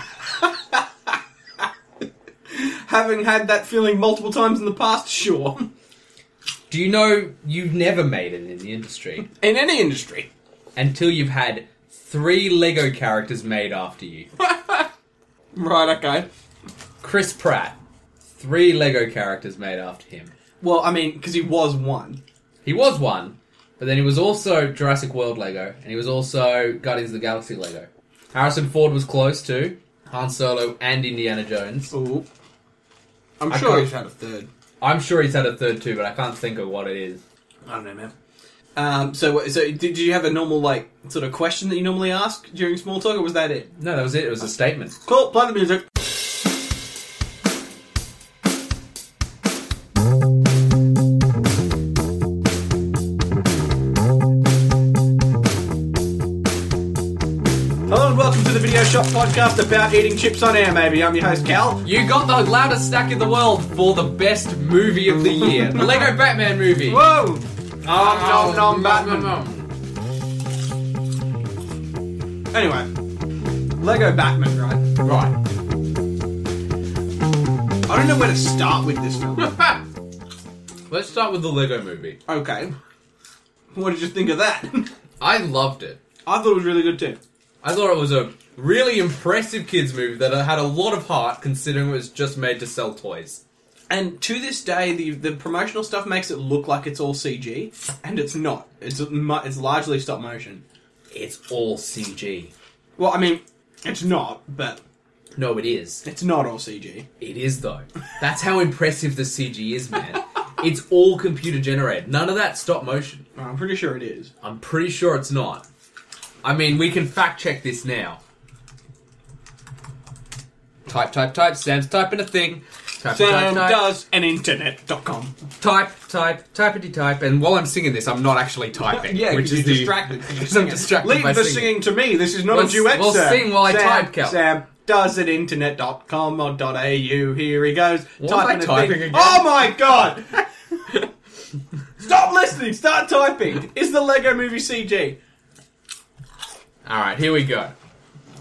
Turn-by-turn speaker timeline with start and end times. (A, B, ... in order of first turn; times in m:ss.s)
0:00.4-0:00.8 A
0:02.5-0:05.6 A
0:06.7-0:09.3 B
0:09.2-0:10.3 A
0:10.7-0:14.3 B
0:14.4-0:14.9 A
0:15.5-0:16.3 A
0:17.0-0:17.8 B
0:18.4-0:20.3 B
0:20.6-0:22.2 A
0:22.6-0:31.9 B
0:31.9-0:32.2 A
0:33.4-0:34.5 A
0:33.5-0:33.9 B
0:34.8-0:37.2 B
0:37.6-0:38.1 A
0:38.8-0:43.7 A
0:43.8-0:45.0 B
0:45.0-0:45.9 A
0:57.9-1:01.8 A
1:01.8-1:07.1 B
1:05.4-1:06.0 A
1:06.8-1:09.4 A
1:07.8-1:09.7 B
1:12.5-1:12.9 A
1:13.8-1:14.8 A
1:15.0-1:15.3 B
1:17.9-1:19.5 A
1:19.4-1:19.8 B
1:20.9-1:22.2 B
1:22.3-1:22.7 A
1:23.7-1:24.9 A
1:25.2-1:26.0 B
1:26.2-1:27.2 A
1:27.6-1:33.4 B
1:33.9-1:40.6 A
1:41.1-1:42.5 B
1:43.0-1:44.8 A
1:45.4-1:46.0 B
1:46.0-1:47.1 A
1:47.2-1:53.2 B
1:53.4-1:54.3 A
1:54.4-1:55.6 B
1:56.4-1:58.2 B
2:00.8-2:03.8 B
2:03.1-2:05.3 A
2:05.6-2:11.8 B
2:08.9-2:20.4 A
2:12.4-2:14.4 B
2:18.2-2:19.8 B
2:22.0-2:25.2 A
2:26.8-2:27.7 B